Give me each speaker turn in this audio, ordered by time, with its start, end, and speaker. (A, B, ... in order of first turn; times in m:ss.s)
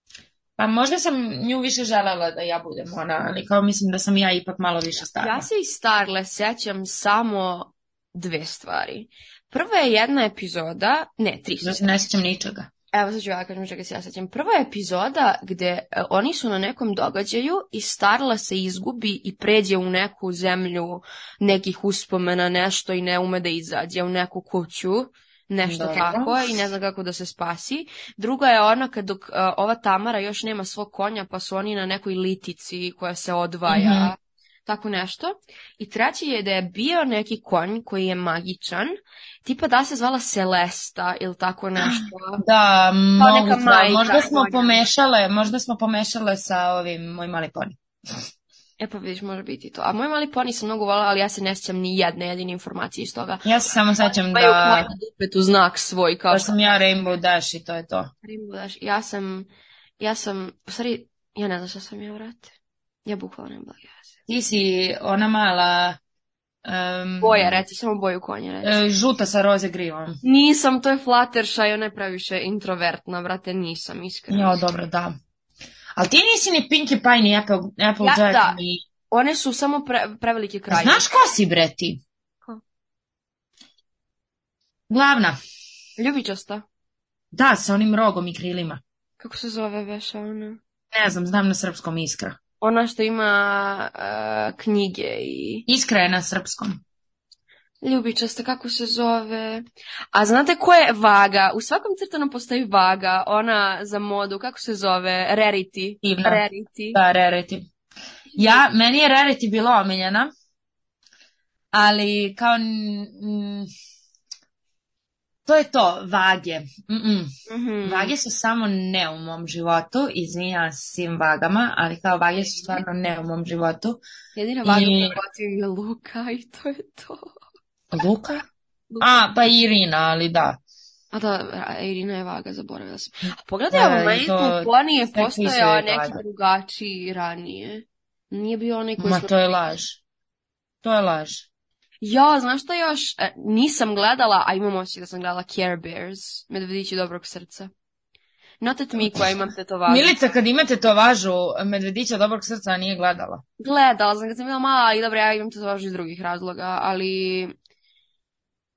0:00.6-0:05.5 A
0:05.1-0:11.9 B
0:11.6-0:12.7 A
0:12.9-0:42.4 B
0:25.6-0:26.4 A
0:33.7-0:34.1 A
0:41.8-0:47.8 A
0:43.2-0:44.8 B
0:48.8-0:53.4 B
0:53.4-0:54.9 A
0:54.0-0:56.6 B
0:56.3-0:58.1 A
0:58.2-0:59.5 B
1:00.0-1:02.5 B
1:03.1-1:04.1 B
1:04.3-1:06.0 A
1:06.6-1:07.6 A
1:07.2-1:08.8 B
1:08.6-1:10.2 A
1:10.2-1:14.6 B
1:14.3-1:15.2 A
1:16.0-1:18.8 A
1:18.0-1:21.1 B
1:20.7-1:22.0 A
1:24.9-1:25.4 A
1:26.0-1:26.6 B
1:27.3-1:28.8 A
1:29.2-1:30.6 B
1:30.9-1:32.4 A
1:32.6-1:35.7 B
1:35.7-1:36.8 A
1:37.8-1:47.0 B
1:46.0-1:47.7 A
1:48.4-1:50.3 A
1:51.7-1:53.7 A
1:55.5-1:57.3 A
1:57.5-1:58.1 B
1:57.8-2:04.0 A
2:04.4-2:07.3 B
2:04.6-2:05.2 A
2:07.9-2:08.4 A
2:08.9-2:09.3 B
2:09.0-2:10.6 A
2:11.1-2:19.3 B
2:13.7-2:16.2 A
2:19.0-2:20.0 A
2:20.8-2:21.5 A
2:22.0-2:27.7 B
2:28.6-2:30.2 B
2:29.9-2:33.4 A
2:33.6-2:37.5 B